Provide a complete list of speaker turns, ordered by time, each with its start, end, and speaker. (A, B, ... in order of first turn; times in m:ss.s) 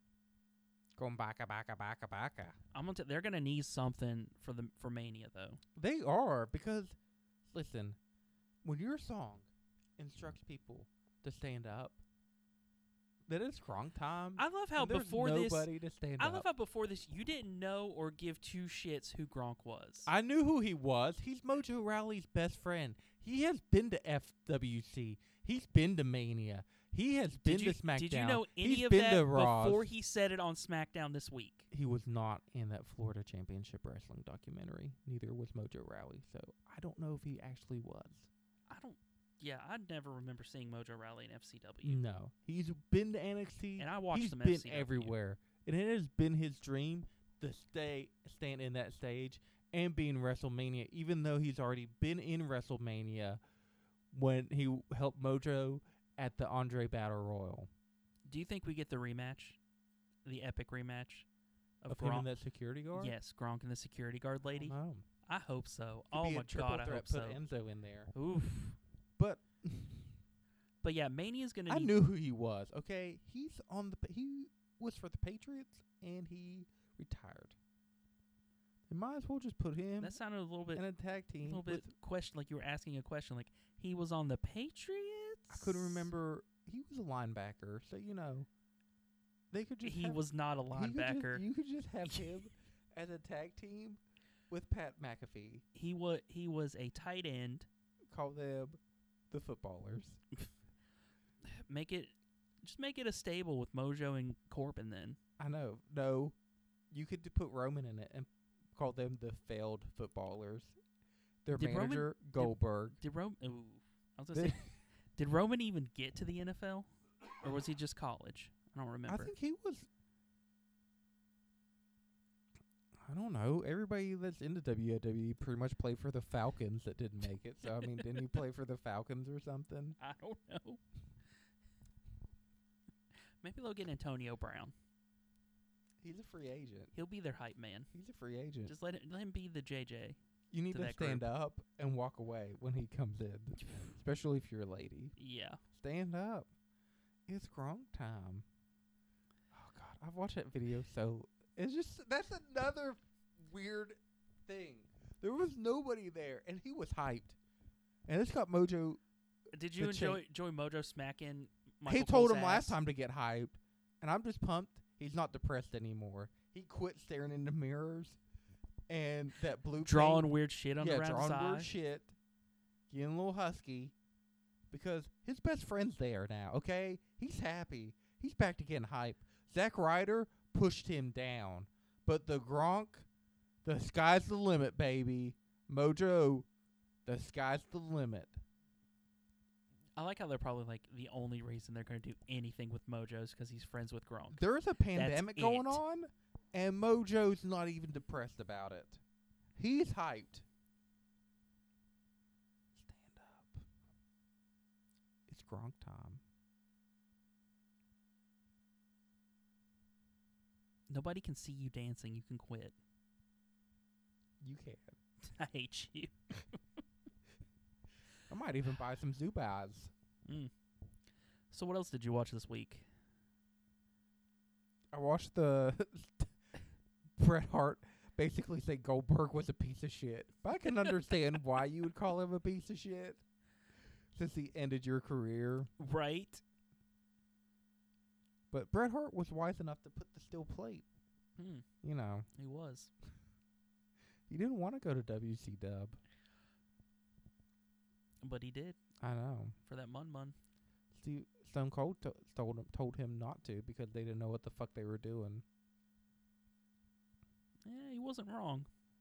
0:01.0-0:02.6 A
0:02.7-0:05.6 B
0:05.8-0:07.0 A
0:07.5-0:08.0 A
0:08.6-0:12.0 A
0:13.3-0:16.4 A
0:14.4-0:20.1 B
0:20.0-0:29.9 A
0:27.4-0:31.7 B
0:31.7-0:38.3 A
0:38.7-0:42.0 B
0:41.8-0:53.4 A
0:43.8-0:45.1 B
0:54.1-0:57.7 A
0:58.2-0:59.6 B
1:00.2-1:01.3 B
1:01.8-1:02.3 B
1:01.9-1:03.1 A
1:02.9-1:07.4 B
1:04.5-1:05.0 A
1:06.1-1:08.1 A
1:08.1-1:08.8 B
1:09.2-1:10.2 A
1:10.8-1:11.9 B
1:11.7-1:17.6 A
1:18.9-1:20.2 A
1:20.0-1:20.8 B
1:20.7-1:21.9 A
1:21.4-1:26.1 B
1:25.5-1:28.5 A
1:29.5-1:30.2 A
1:29.8-1:31.4 B
1:30.7-1:35.6 A
1:32.0-1:32.4 B
1:35.7-1:37.7 B
1:38.1-1:38.8 A
1:39.3-1:40.2 A
1:41.4-1:45.2 B
1:45.4-1:46.4 A
1:46.9-1:50.7 A
1:51.4-1:53.0 A
1:51.5-1:56.9 B
1:54.3-1:54.7 A
1:57.4-1:59.3 B
1:59.1-1:59.9 A
2:03.0-2:10.0 A
2:07.7-2:08.2 B
2:10.0-2:10.8 B
2:13.4-2:14.7 B
2:16.0-2:16.9 A
2:16.9-2:17.9 B
2:17.9-2:18.7 A
2:18.6-2:20.2 B
2:20.5-2:25.1 A
2:20.7-2:21.2 B
2:25.2-2:25.6 B
2:25.7-2:26.5 A
2:27.3-2:28.4 A
2:29.5-2:37.4 A
2:38.1-2:39.0 A
2:39.5-2:42.8 B
2:39.8-2:40.2 A
2:41.8-2:48.2 A
2:48.9-2:52.1 A
2:49.8-2:51.7 B
2:52.9-2:53.9 A
2:54.7-3:03.1 A
3:03.6-3:06.5 A
3:07.0-3:08.4 A
3:10.0-3:14.4 B
3:14.3-3:19.0 A
3:14.9-3:15.8 B
3:19.6-3:20.4 A
3:22.7-3:23.6 A
3:25.3-3:26.2 A
3:30.9-3:32.7 B
3:34.4-3:35.0 A
3:35.2-3:36.1 B
3:38.2-3:39.9 A
3:40.2-3:40.5 B
3:41.5-3:42.9 B
3:44.9-3:46.3 A
3:47.2-3:53.2 A
3:50.6-3:50.9 B
3:54.1-3:55.7 A
3:55.8-3:56.4 B
3:58.5-4:00.8 A
4:01.4-4:01.6 B
4:01.8-4:02.3 A
4:02.3-4:02.9 B
4:04.3-4:06.0 A
4:08.2-4:08.8 B
4:09.0-4:09.6 A
4:09.6-4:10.3 B
4:10.9-4:15.4 A
4:17.6-4:18.7 B